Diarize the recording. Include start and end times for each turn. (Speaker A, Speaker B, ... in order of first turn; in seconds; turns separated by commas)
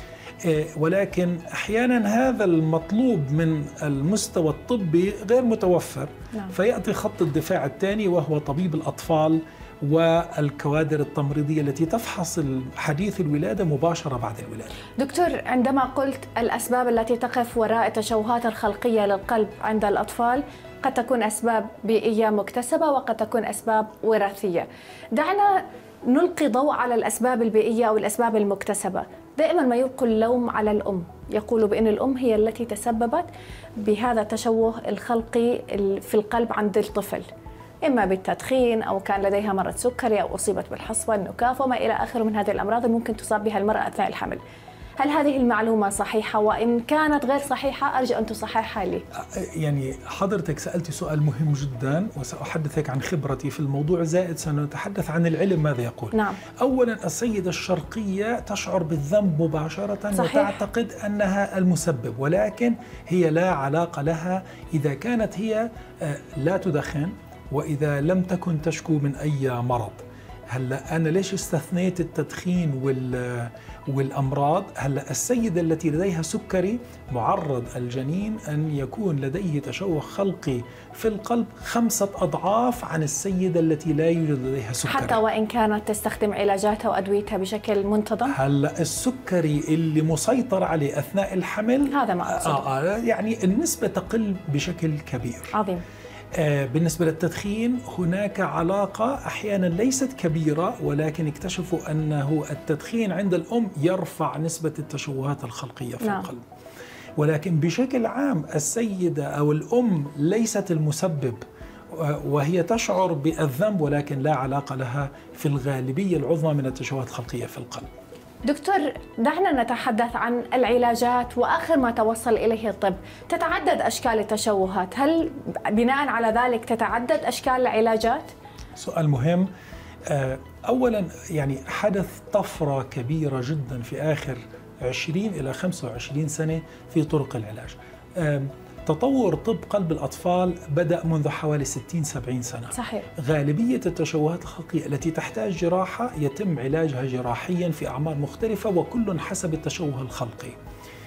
Speaker A: 0.4-14.7, Speaker B: 15.0-37.3, Speaker B: 37.8-44.4, Speaker B: 45.0-49.0, Speaker A: 49.2-85.2, Speaker B: 56.1-56.4, Speaker B: 60.1-60.6, Speaker B: 84.9-88.3, Speaker A: 88.3-95.5, Speaker B: 91.9-92.6, Speaker B: 95.5-95.8, Speaker A: 96.3-106.4, Speaker B: 106.0-106.3, Speaker A: 107.2-117.9, Speaker B: 118.5-128.3, Speaker A: 128.8-129.5, Speaker A: 130.1-150.6, Speaker B: 142.7-143.1